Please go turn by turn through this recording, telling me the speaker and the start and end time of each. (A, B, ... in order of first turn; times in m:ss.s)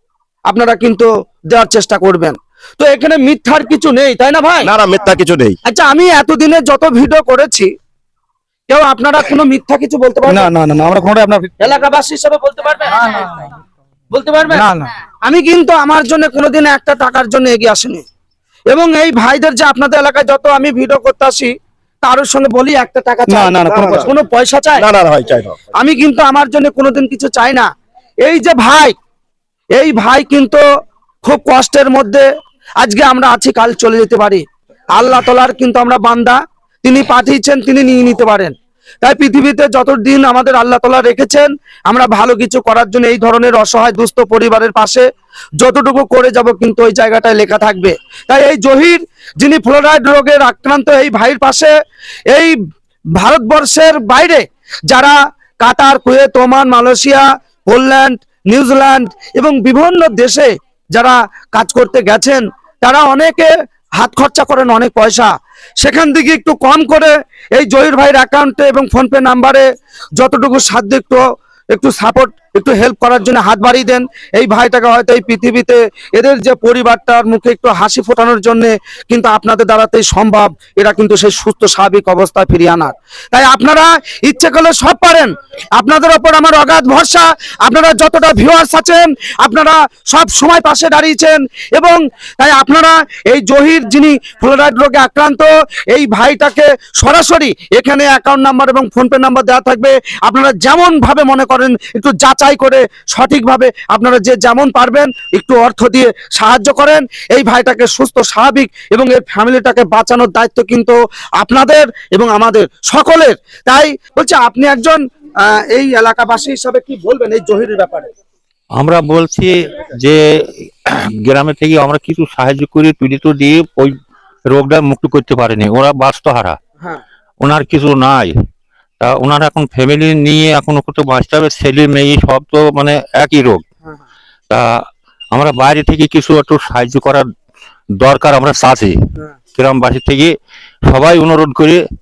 0:00.5-0:04.7 A
0:04.6-0:05.6 B
0:05.6-0:07.7 A
0:08.7-0:10.5 A
0:10.3-0:11.6 C
0:11.6-0:13.2 A
0:13.0-0:13.3 C
0:14.1-0:14.7 A
0:14.5-0:14.9 C
0:15.2-0:18.0 A
0:18.7-0:24.8 A
0:23.3-0:24.1 C
0:23.7-0:24.0 B
0:24.8-0:25.6 B
0:25.7-0:27.7 A
0:28.2-0:28.9 A
0:29.8-0:30.6 A
0:31.2-0:32.2 A
0:32.8-0:34.4 A
0:34.9-0:45.0 A
0:45.6-0:51.7 A
0:52.3-0:52.6 A
0:53.2-1:09.6 A
1:10.2-1:11.2 A
1:11.7-1:58.1 A
1:58.7-2:03.9 D
2:04.4-2:06.6 D
2:07.4-2:08.3 D
2:09.0-2:13.6 D
2:14.5-2:17.3 D
2:18.0-2:19.0 D
2:19.5-2:20.3 D
2:20.8-2:21.8 D